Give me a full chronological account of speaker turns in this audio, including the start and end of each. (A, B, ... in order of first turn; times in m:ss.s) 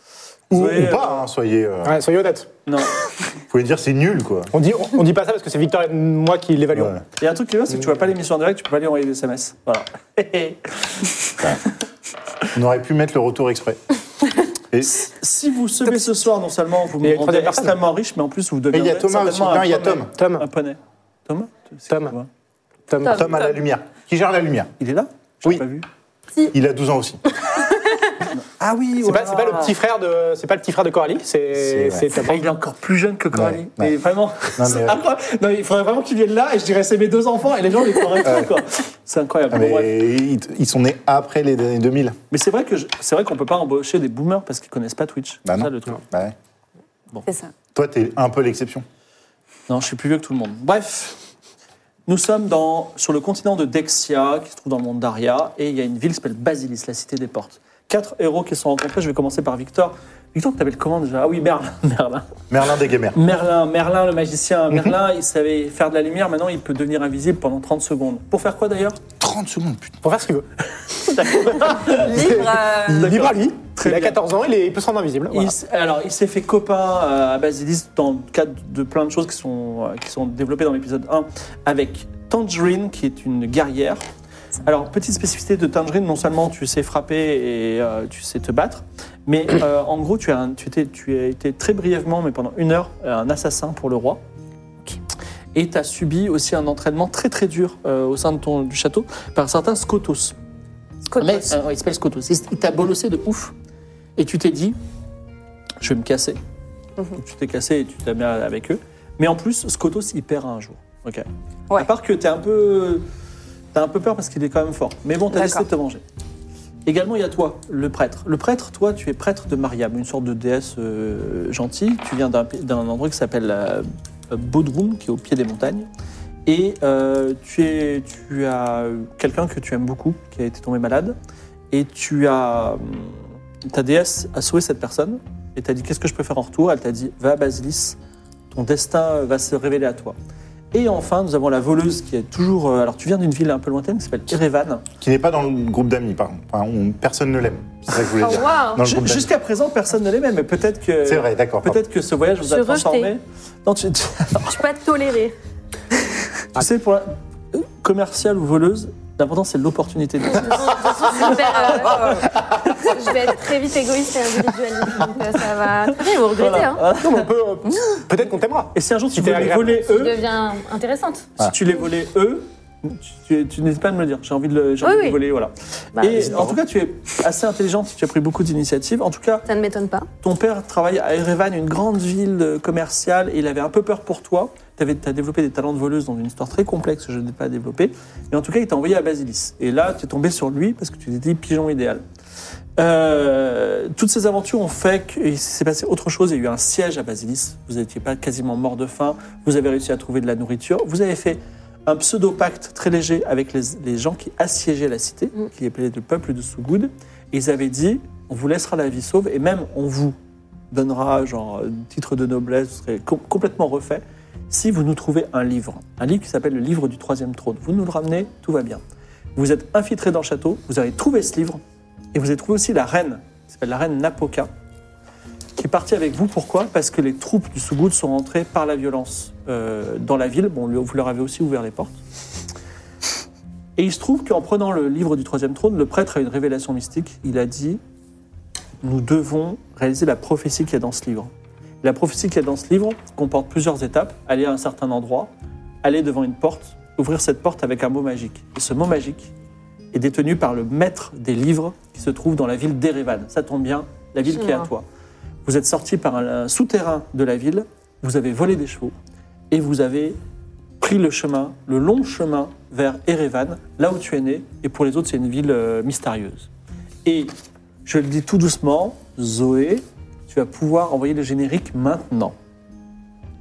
0:00.5-0:01.2 A
0:00.5-0:02.0 B
0:01.8-0:02.5 C
0:02.6-0:03.2 A
0:03.5-0:04.5 B
0:04.5-0:07.0 C
0:06.7-0:07.0 B
0:07.2-0:11.5 A
0:12.5-0:13.8 B
0:14.7-0:15.1 B
0:15.0-0:22.3 A
0:17.0-0:17.8 C
0:18.7-0:20.1 B
0:20.1-0:20.5 C
0:21.9-0:22.1 C
0:22.9-0:23.3 C
0:23.0-0:23.6 D
0:23.0-0:24.7 B
0:24.8-0:25.8 A
0:26.5-0:27.2 B
0:27.5-0:28.3 D
0:28.3-0:29.8 A
0:29.0-0:32.4 C
0:31.6-0:32.1 B
0:32.2-0:39.9 A
0:33.3-0:33.9 B
0:34.6-0:35.0 B
0:38.2-0:38.5 B
0:39.5-0:42.2 B
0:42.3-0:46.0 A
0:45.4-0:46.3 B
0:47.2-0:47.5 E
0:47.7-0:48.8 B
0:49.7-0:51.2 A
0:52.1-1:02.2 A
1:02.5-1:03.2 B
1:03.1-1:09.0 A
1:09.2-1:10.0 B
1:10.0-1:10.4 C
1:11.0-1:14.2 A
1:11.8-1:13.1 E
1:11.9-1:15.6 C
1:15.3-1:24.0 A
1:24.6-1:34.2 A
1:35.5-1:40.3 A
1:41.1-1:41.5 E
1:41.2-1:43.5 A
1:44.2-1:44.8 A
1:45.8-1:46.4 A
1:47.2-1:53.0 A
1:53.7-1:56.0 A
1:55.3-1:55.6 E
1:56.8-2:05.9 A
2:06.4-2:11.2 A
2:11.7-2:13.2 A
2:13.7-2:18.0 A
2:18.5-2:20.1 A
2:20.7-2:24.8 A
2:25.0-2:29.3 B
2:28.2-2:28.8 D
2:28.8-2:34.5 A
2:31.0-2:31.8 B
2:32.4-2:33.1 D
2:34.4-2:35.3 D
2:36.4-2:41.2 A
2:40.2-2:42.2 D
2:41.3-2:42.3 E
2:42.3-2:43.1 A
2:42.9-2:46.8 D
2:46.2-2:47.3 A
2:47.0-2:49.9 C
2:48.7-2:50.2 A
2:49.9-2:51.3 D
2:51.4-2:59.4 A
2:54.8-2:55.2 D
2:56.0-2:56.3 D
2:56.1-2:56.6 B
2:59.4-3:00.1 D
3:00.2-3:12.0 A
3:12.8-3:30.1 A
3:30.7-3:38.8 A
3:39.4-3:41.6 A
3:42.1-3:44.5 A
3:45.6-3:52.0 A
3:53.8-3:57.8 A
3:58.8-4:01.3 A
4:01.8-4:05.3 A
4:05.8-4:09.3 A
4:09.9-4:14.8 A
4:14.3-4:14.7 D
4:15.4-4:18.9 A
4:19.5-4:20.2 A
4:20.8-4:26.5 A
4:27.0-4:27.3 A
4:27.8-4:32.3 A